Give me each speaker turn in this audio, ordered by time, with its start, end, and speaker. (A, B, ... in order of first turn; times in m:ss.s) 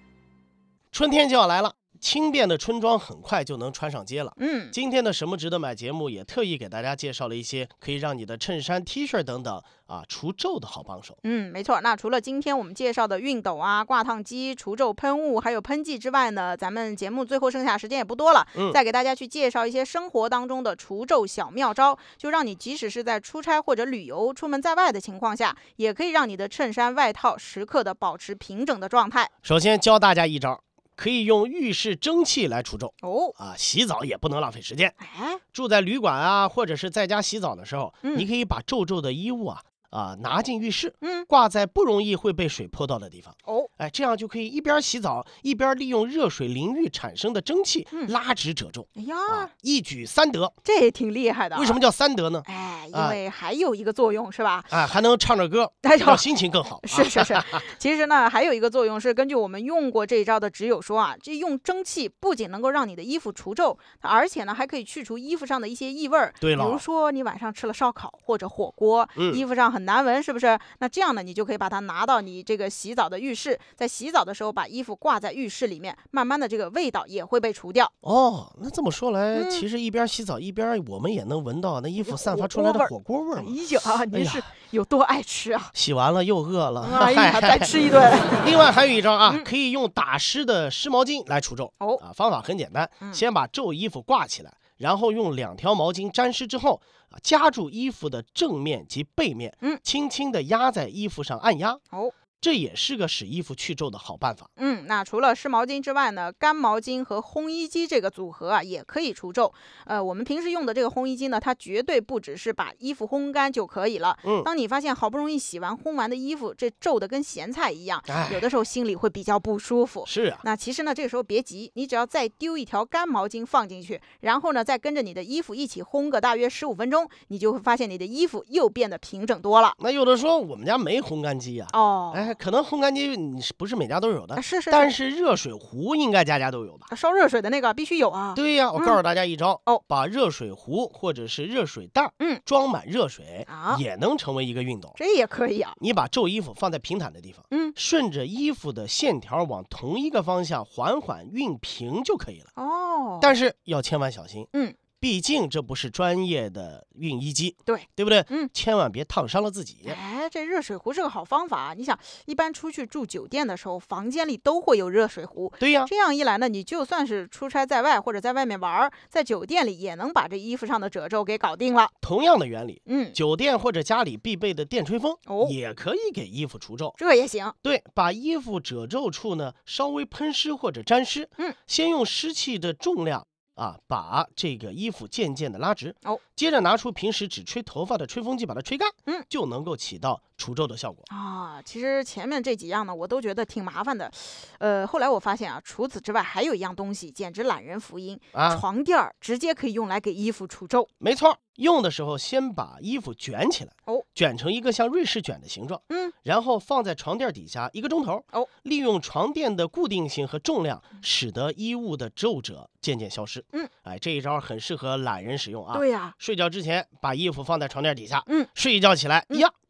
0:00.9-0:11.2 A
0:04.4-0:04.7 B
0:11.2-0:29.3 B
0:29.4-0:34.9 A
0:33.0-0:33.3 B
0:35.0-0:35.4 B
0:35.5-0:50.5 A
0:38.0-0:38.3 B
0:41.0-0:41.3 B
0:43.4-0:43.7 B
0:49.0-0:49.5 B
0:50.6-0:51.8 B
0:51.5-0:53.2 A
0:52.4-0:54.7 B
0:54.7-0:57.6 A
0:55.8-0:56.3 B
0:56.8-1:17.9 B
1:06.4-1:06.8 A
1:09.2-1:09.4 A
1:18.0-1:23.6 A
1:19.3-1:19.6 B
1:22.0-1:25.7 B
1:24.1-1:24.4 A
1:25.7-1:27.7 A
1:26.8-1:28.5 B
1:28.4-1:41.8 A
1:42.4-1:44.5 A
1:44.6-2:09.8 B
1:58.1-1:58.4 A
2:00.0-2:00.4 A
2:09.8-2:16.9 A
2:11.7-2:12.3 B
2:14.4-2:14.9 B
2:16.9-2:19.0 B
2:18.3-2:25.0 A
2:23.5-2:23.8 B
2:25.0-2:25.8 B
2:25.8-2:32.5 A
2:27.5-2:27.8 B
2:32.6-2:33.3 B
2:33.2-2:40.0 A
2:34.5-2:34.8 B
2:37.7-2:38.5 B
2:39.8-2:51.9 B
2:45.6-2:45.9 A
2:52.0-2:57.0 A
2:52.9-2:53.2 B
2:55.3-2:55.6 B
2:57.0-2:57.5 B
2:57.6-3:11.0 A
3:11.1-3:20.9 B
3:18.3-3:18.6 A
3:21.0-3:39.5 A
3:35.7-3:36.1 B